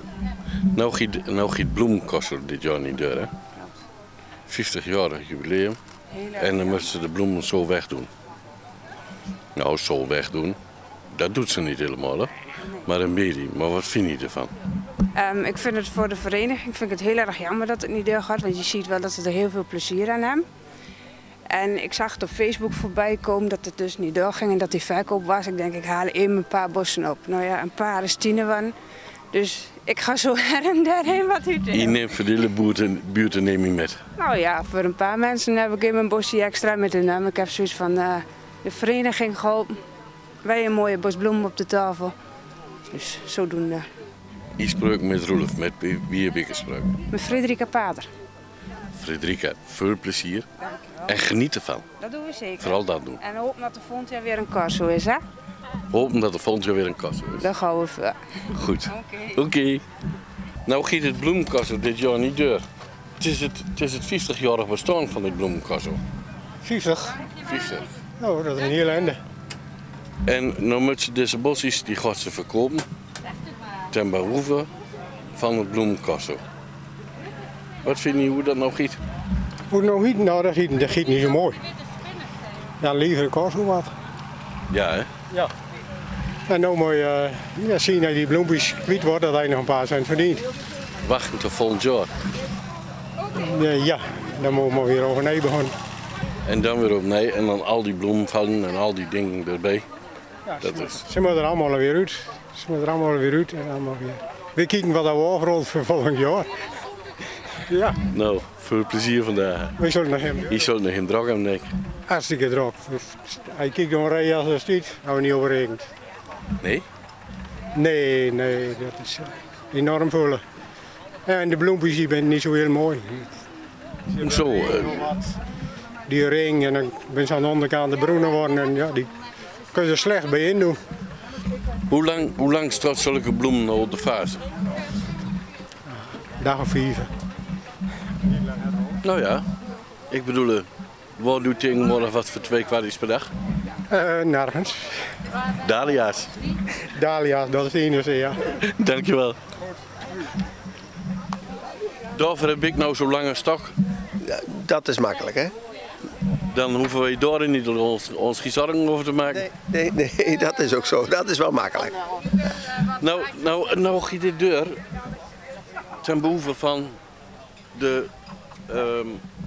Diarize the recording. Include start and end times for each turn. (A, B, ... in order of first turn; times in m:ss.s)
0:00.7-0:03.3 A
0:04.5-0:05.8 A
0:06.2-0:06.7 B
0:06.4-0:08.1 A
0:09.5-0:10.6 A
0:11.1-0:12.3 A
0:12.8-0:14.5 A
0:15.2-0:20.4 B
0:21.5-0:28.7 B
0:29.3-0:32.0 B
0:31.7-0:34.0 A
0:34.2-0:39.8 B
0:40.4-0:42.1 B
0:42.9-0:43.9 B
0:44.6-0:46.9 A
0:47.1-0:48.1 B
0:49.0-0:50.5 A
0:50.6-0:51.2 B
0:51.0-0:51.9 A
0:52.0-0:55.2 B
0:52.6-0:53.2 A
0:55.9-0:57.5 A
0:57.4-0:58.2 B
0:58.5-0:59.8 A
0:58.8-0:59.4 B
1:00.6-1:02.6 A
1:03.2-1:06.0 A
1:06.6-1:07.2 C
1:07.4-1:07.9 A
1:08.2-1:09.2 C
1:10.2-1:12.8 A
1:13.9-1:14.7 A
1:15.3-1:16.4 A
1:17.8-1:19.0 A
1:19.7-1:21.6 C
1:22.8-1:23.9 C
1:24.7-1:25.1 A
1:26.5-1:30.4 C
1:31.0-1:32.1 A
1:33.3-1:35.7 C
1:36.4-1:39.8 A
1:40.4-1:46.5 C
1:40.6-1:41.0 A
1:47.7-1:48.0 C
1:48.1-1:49.8 A
1:49.8-1:50.7 C
1:50.5-1:51.7 A
1:52.1-1:55.9 C
1:57.7-2:00.4 C
2:01.2-2:03.3 C
2:04.2-2:05.1 A
2:06.1-2:09.1 C
2:09.7-2:10.8 C
2:11.9-2:14.4 A
2:15.9-2:17.1 C
2:19.0-2:19.4 A
2:20.1-2:20.7 A
2:21.2-2:23.3 A
2:23.9-2:25.0 C
2:25.6-2:26.3 A
2:26.9-2:28.4 C
2:28.6-2:29.4 A
2:32.1-2:33.7 A
2:34.2-2:35.5 D
2:36.5-2:39.4 A
2:39.3-2:42.0 D
2:43.0-2:44.8 A
2:46.0-2:47.0 A
2:47.7-2:48.1 A
2:48.7-2:49.2 A